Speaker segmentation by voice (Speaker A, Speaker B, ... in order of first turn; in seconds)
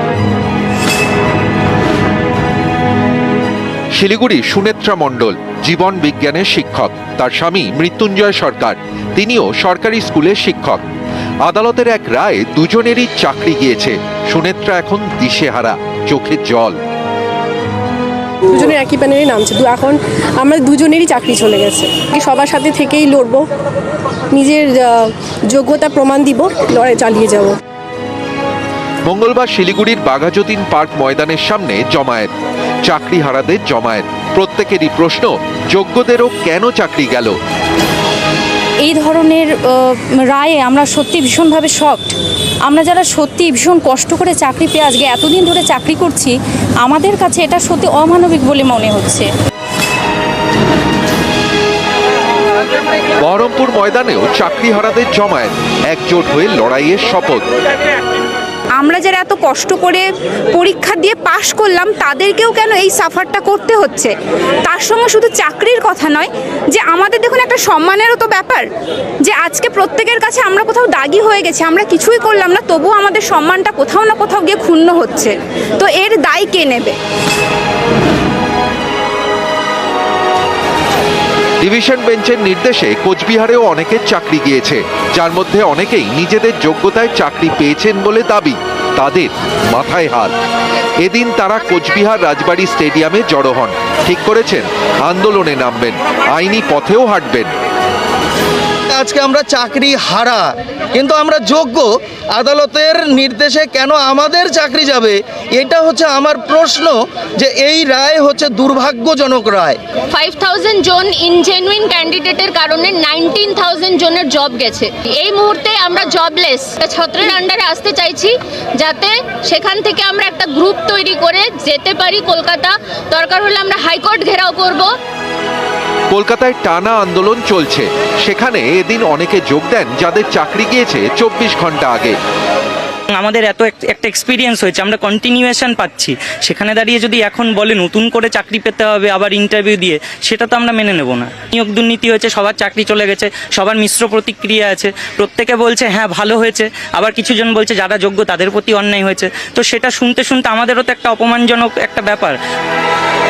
Speaker A: 4.0-10.8, 11.4-16.8, 29.1-32.3, 32.9-37.4, 53.2-57.5, 81.6-90.3, 91.0-97.5, 126.1-132.2
Speaker B: 18.5-23.4, 24.3-27.6
Speaker C: 38.8-49.3, 58.8-59.3
Speaker D: 58.8-64.1, 64.6-68.7, 69.2-77.0
Speaker E: 98.9-109.8
Speaker F: 110.1-124.9
Speaker G: 133.1-152.3